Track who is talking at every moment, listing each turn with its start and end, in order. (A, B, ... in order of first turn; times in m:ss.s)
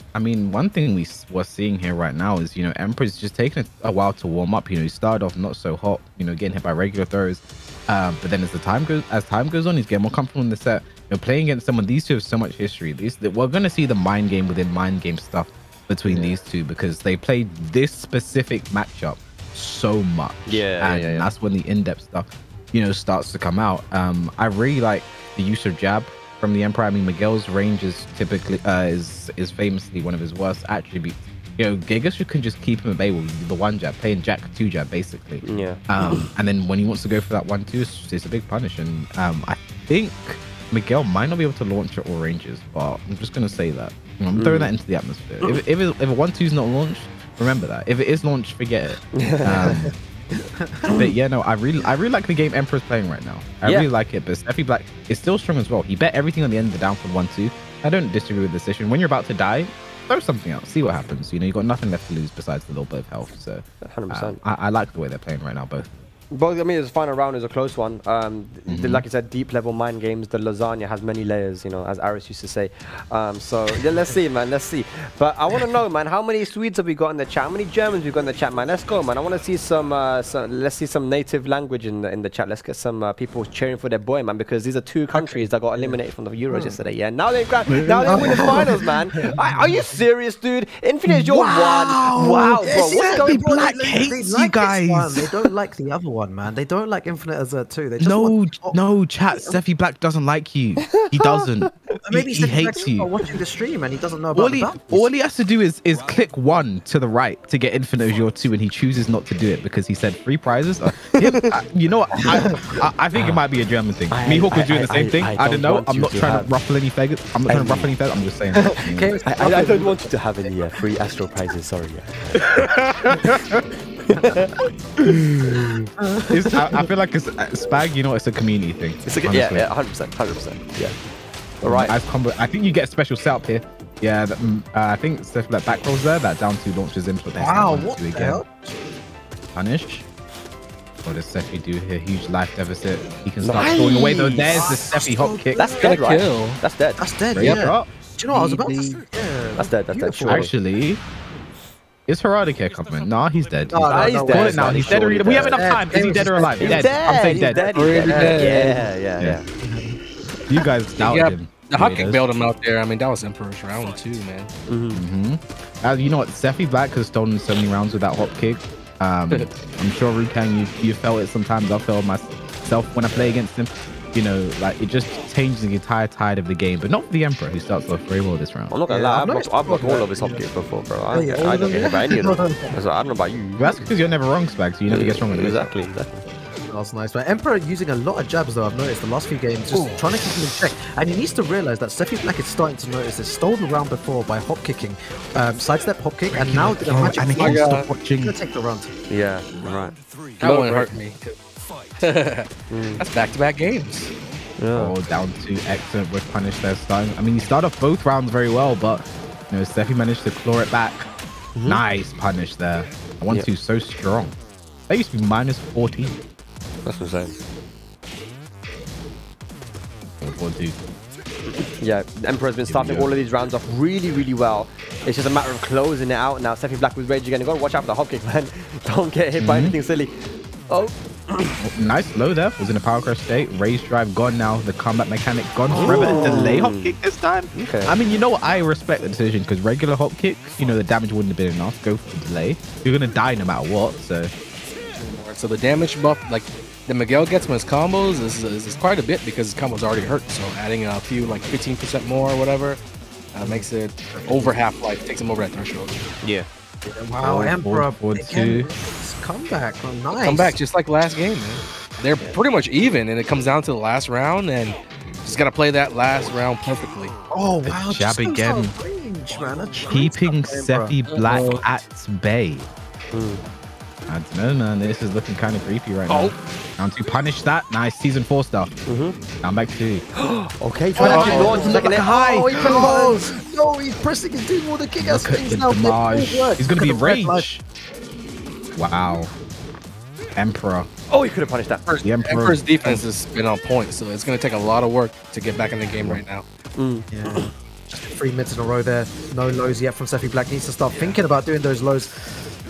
0:00.1-0:49.9 A
0:16.0-0:16.4 B
0:20.5-0:21.3 B
0:35.4-0:36.2 B
0:44.3-0:44.7 B
0:49.2-0:49.7 B
0:50.6-0:51.0 C
0:51.0-1:05.9 A
1:03.8-1:04.4 B
1:06.3-1:33.7 B
1:08.7-1:09.0 A
1:25.2-1:26.8 C
1:27.7-1:28.6 A
1:28.0-1:30.0 C
1:31.1-1:35.4 A
1:31.5-1:39.6 C
1:38.0-1:43.1 A
1:40.9-1:41.5 B
1:42.0-1:45.1 C
1:44.3-1:59.1 A
1:51.1-1:51.5 B
1:52.2-1:52.5 C
1:53.1-1:53.4 B
1:54.1-1:56.5 B
1:57.4-1:57.9 B
1:58.5-2:00.5 C
1:59.2-2:02.4 B
2:02.5-2:03.6 A
2:04.1-2:04.4 C
2:04.2-2:04.5 B
2:06.0-2:06.9 C
2:06.3-2:09.7 A
2:09.0-2:11.0 B
2:11.6-2:11.9 B
2:11.6-2:18.4 A
2:17.4-2:18.8 C
2:19.6-2:20.0 A
2:21.0-2:25.6 A
2:23.4-2:24.7 B
2:24.6-2:25.9 C
2:25.6-2:27.0 B
2:25.8-2:26.6 D
2:27.0-2:30.5 C
2:27.3-2:27.9 A
2:29.6-2:30.5 B
2:30.3-2:31.0 A
2:32.1-2:37.7 A
2:33.7-2:38.9 C
2:33.9-2:35.6 B
2:36.4-2:39.4 B
2:37.7-2:38.8 D
2:39.6-2:40.0 C
2:40.5-2:42.3 A
2:41.0-2:44.5 D
2:44.7-2:45.0 B
2:44.9-2:58.7 A
2:53.1-2:53.4 B
2:58.7-3:03.9 B
2:58.9-3:00.4 C
3:01.1-3:02.8 C
3:03.6-3:05.7 A
3:04.9-3:06.2 B
3:06.7-3:17.6 C
3:16.3-3:18.3 A
3:17.1-3:17.9 D
3:18.2-3:18.9 C
3:19.1-3:21.0 B
3:20.4-3:21.4 D
3:22.0-3:24.1 D
3:22.7-3:23.0 B
3:24.6-3:25.0 B
3:24.7-3:31.1 A
3:31.5-3:31.8 B
3:31.6-3:34.4 A
3:34.9-3:36.2 A
3:36.8-3:37.3 B
3:40.2-3:40.8 A
3:41.5-3:50.1 B
3:42.6-3:43.1 A
3:49.4-3:49.8 A
3:50.7-3:51.6 B
3:51.6-4:04.3 A
3:55.7-3:57.0 B
3:57.5-3:57.9 B
4:05.0-4:12.8 D
4:13.3-4:16.0 D
4:13.4-4:14.6 C
4:16.2-4:16.5 B
4:16.8-4:20.5 C
4:17.2-4:18.7 A
4:20.1-4:27.1 D
4:27.3-4:31.0 C
4:27.6-4:28.7 A
4:29.9-4:32.7 A
4:31.1-4:31.6 D
4:33.1-4:33.4 B
4:34.1-4:38.7 A
4:36.1-4:36.3 B
4:38.8-4:39.2 B
4:39.4-4:40.0 A
4:40.2-4:42.1 B
4:41.0-4:47.5 C
4:41.0-4:43.2 A
4:41.1-4:41.6 D
4:45.0-4:47.6 A
4:48.8-4:49.3 A
4:50.4-4:50.9 A
4:51.1-4:51.8 B
4:51.8-4:56.4 D
4:52.0-4:53.0 A
4:56.0-4:56.2 A
4:56.8-4:57.1 B
4:57.1-5:02.2 C